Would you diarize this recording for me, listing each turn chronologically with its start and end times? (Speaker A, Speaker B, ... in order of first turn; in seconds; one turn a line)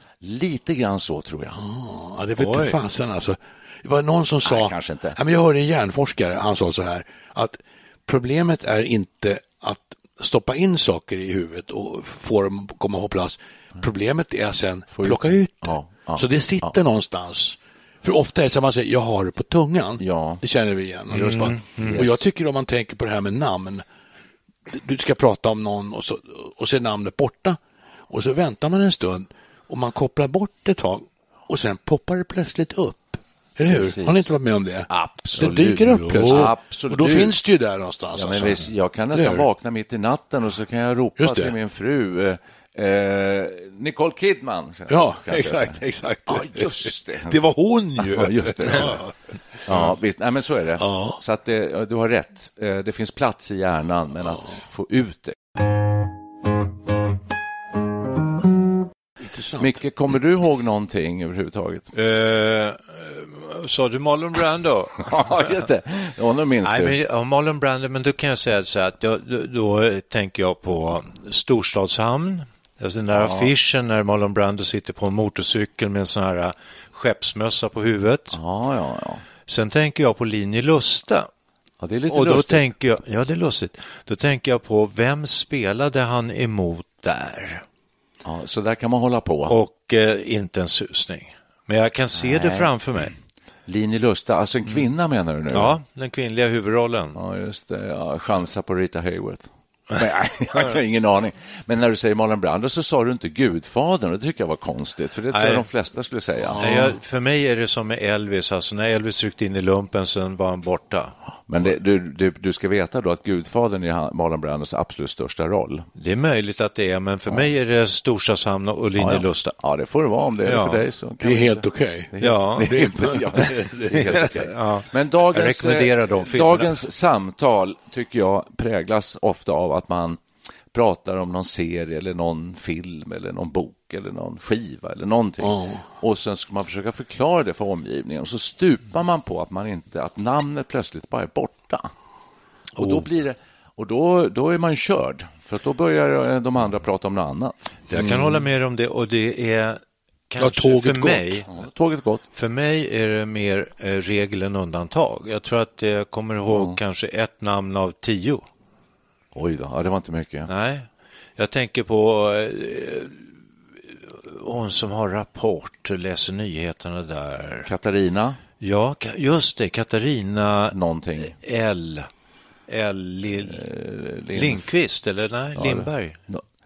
Speaker A: 0.2-1.6
Speaker B: 1.6-23.9
Speaker C: 2.4-2.8
Speaker A: 4.5-5.2
Speaker A: 14.9-16.8
Speaker A: 20.0-20.4
Speaker A: 21.1-22.2
Speaker C: 21.1-22.1
Speaker B: 24.7-27.6
Speaker B: 28.1-39.5
Speaker A: 33.7-34.4
Speaker A: 34.9-37.4
Speaker A: 38.1-47.4
Speaker B: 41.2-41.5
Speaker B: 44.9-49.1
Speaker A: 48.0-49.0
Speaker A: 49.7-55.4
Speaker B: 49.7-49.9
Speaker B: 50.8-51.2
Speaker B: 59.2-59.7
Speaker A: 59.6-61.9
Speaker C: 61.9-65.6
Speaker A: 65.0-67.0
Speaker C: 66.6-78.4
Speaker A: 73.1-73.5
Speaker A: 78.3-79.2
Speaker C: 79.5-81.3
Speaker A: 81.8-82.7
Speaker C: 82.1-87.6
Speaker A: 88.2-89.6
Speaker C: 89.5-93.1
Speaker A: 92.2-92.7
Speaker A: 93.7-95.8
Speaker C: 95.5-97.2
Speaker A: 97.2-106.6
Speaker C: 105.3-105.7
Speaker B: 106.4-107.0
Speaker C: 106.6-111.1
Speaker A: 111.5-115.9
Speaker C: 116.0-119.5
Speaker A: 119.0-130.2
Speaker C: 120.4-120.8
Speaker B: 121.2-124.4
Speaker C: 122.2-122.8
Speaker C: 123.9-126.8
Speaker A: 130.7-141.9
Speaker B: 135.4-135.8
Speaker A: 142.8-147.9
Speaker C: 147.9-151.5
Speaker B: 150.4-151.3
Speaker A: 151.5-152.2
Speaker C: 152.3-158.4
Speaker A: 156.5-156.8
Speaker A: 159.3-160.5
Speaker C: 160.5-163.2
Speaker C: 164.0-167.7
Speaker A: 167.7-168.4
Speaker C: 168.6-172.1
Speaker A: 170.7-171.4
Speaker C: 172.7-173.6
Speaker A: 173.3-174.7
Speaker C: 174.3-176.2
Speaker A: 175.6-176.4